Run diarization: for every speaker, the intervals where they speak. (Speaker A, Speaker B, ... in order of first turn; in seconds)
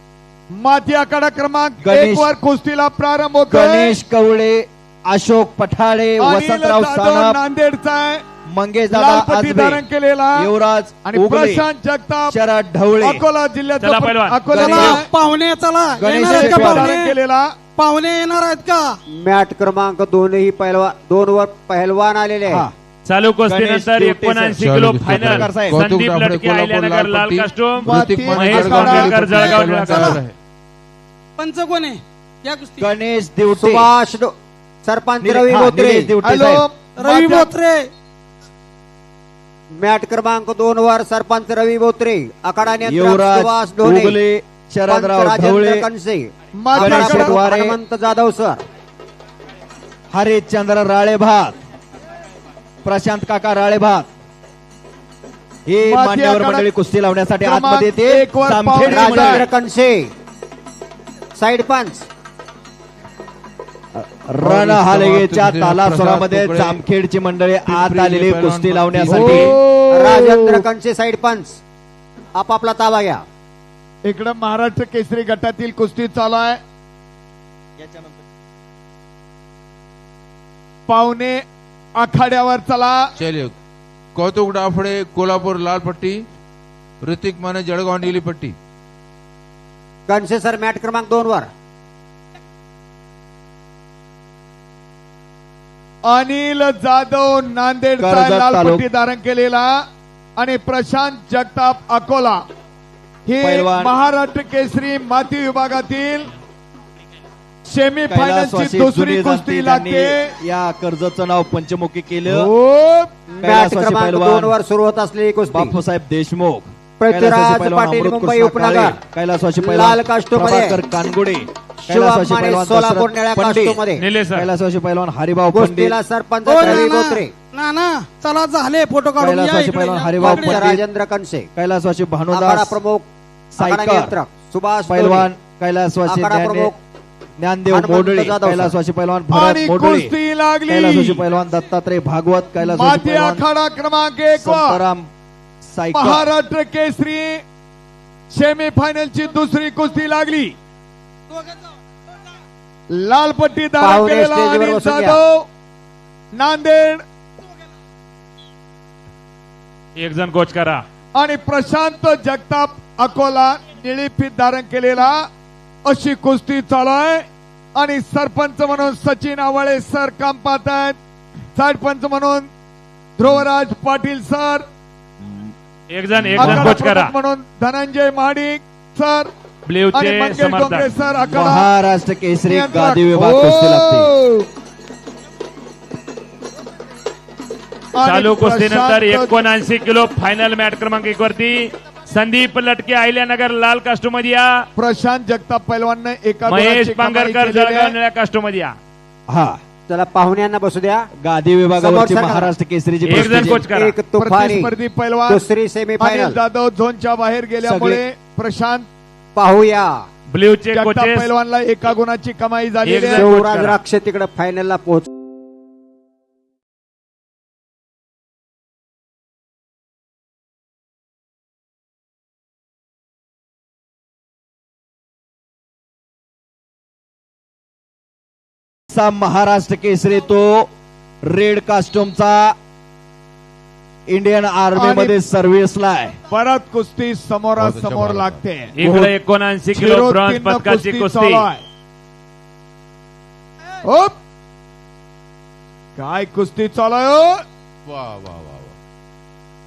Speaker A: 0.5-4.0, 6.2-8.2, 8.9-10.4, 11.1-12.3, 13.0-15.1, 16.1-17.5, 27.8-29.6, 36.2-37.5, 46.6-47.4, 55.8-56.6, 57.4-59.4, 69.0-70.6, 74.0-76.6, 80.9-81.4, 81.9-83.1, 96.1-99.7, 100.4-102.4, 103.3-106.3, 107.7-110.2, 112.4-113.1, 139.3-141.2, 142.6-144.8, 145.9-147.4, 148.3-150.5, 152.9-155.5, 156.3-157.0, 161.1-165.2, 165.8-171.0, 171.6-172.5, 173.2-174.6, 176.4-179.3, 179.9-181.7, 182.5-184.5, 188.0-189.3, 194.8-197.9, 204.2-205.4, 206.0-208.9, 210.7-213.3, 234.7-235.2, 236.3-238.7, 239.7-241.6, 243.8-244.1, 246.0-247.4
Speaker B: 1.8-2.3, 3.5-7.4, 8.5-9.8, 10.4-11.6, 12.3-13.2, 16.0-16.9, 22.4-22.7, 23.5-25.8, 32.8-33.9, 35.2-36.6, 42.8-45.9, 46.8-47.8, 50.1-51.5, 52.8-54.1, 55.7-59.5, 63.9-69.5, 98.0-98.8, 103.4-103.9, 108.1-112.5, 113.4-114.5, 115.5-123.8, 124.3-125.9, 129.2-130.8, 131.6-132.8, 133.6-134.1, 134.9-136.7, 137.4-140.1, 140.7-143.4, 144.4-145.1, 145.6-146.3, 176.4-176.8, 181.3-184.1, 199.3-199.6, 201.2-203.7, 207.6-208.0, 228.9-230.7, 231.2-232.5, 234.1-236.2, 238.8-239.1
Speaker C: 13.8-14.9, 23.1-30.2, 124.0-124.5, 160.0-160.8, 175.9-177.1, 179.7-180.8, 188.0-194.7, 196.5-198.7, 203.0-203.9, 210.3-211.3, 212.8-213.8, 238.8-241.4
Speaker D: 14.5-17.1, 17.8-18.9, 29.3-30.2, 31.4-32.9, 37.0-37.8, 126.4-130.6, 151.3-151.6
Speaker E: 19.2-22.6, 33.5-34.3, 34.8-36.1, 39.8-44.2, 44.9-48.6, 58.9-60.0, 61.4-62.1, 69.9-71.6, 72.3-73.2, 90.1-91.5, 113.3-115.7, 117.0-119.0, 119.6-120.8, 121.9-124.0, 125.5-127.3, 130.2-131.5, 132.3-135.3, 136.1-136.8, 137.7-138.7, 153.8-155.2, 199.9-201.1, 201.8-202.5, 203.1-204.7, 205.3-206.4, 209.3-209.9, 213.1-215.1
Speaker F: 24.5-30.3, 64.4-66.8, 67.7-69.5, 83.2-83.5, 84.1-86.3, 87.0-88.5, 237.6-238.4, 247.8-248.7